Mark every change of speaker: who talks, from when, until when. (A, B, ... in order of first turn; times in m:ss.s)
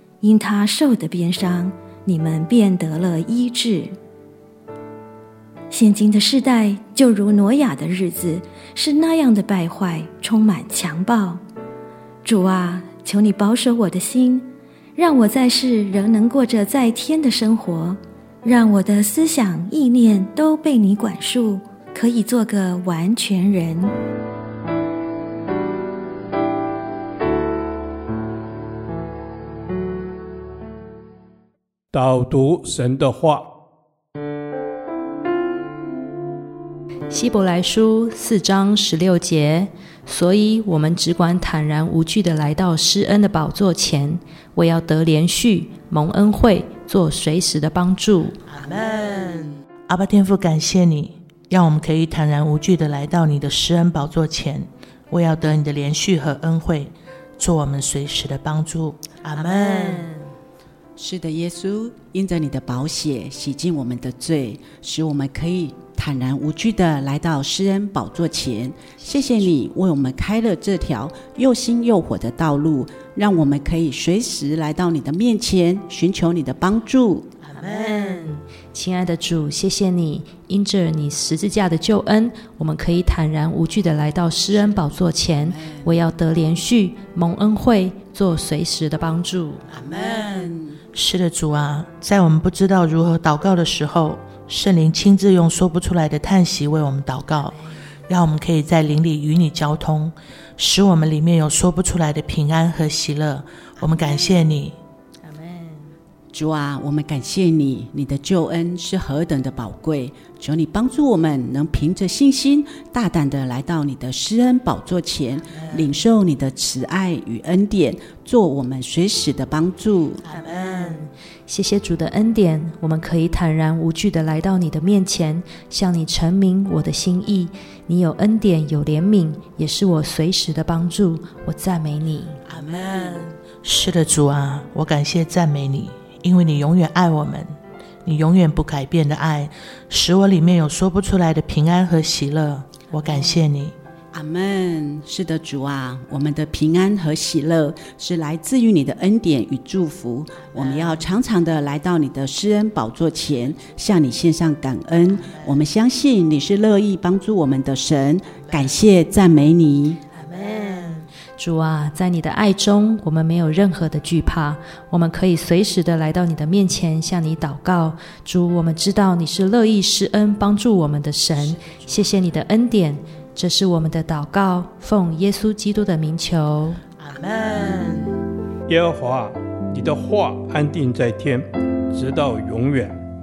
0:00.2-0:03.9 A
0:05.7-0:11.4 A
0:12.2-0:23.9 A
0:31.9-0:33.5 B
0:37.1-0:48.4 C
0:48.5-1:00.1 D
1:01.0-1:17.3 E
1:17.5-1:18.2 D
1:17.9-1:18.2 C
1:18.7-1:29.6 C
1:24.6-1:26.0 E
1:29.7-1:30.8 E
1:30.9-1:44.8 D
1:46.3-2:00.2 E
2:00.3-2:01.1 D
2:01.5-2:12.4 C
2:12.5-2:17.5 D
2:18.0-2:23.8 D
2:24.1-2:40.0 E
2:30.8-2:31.0 D
2:40.3-2:41.0 D
2:41.4-2:56.8 C
2:57.0-2:58.1 D
2:58.7-3:03.0 B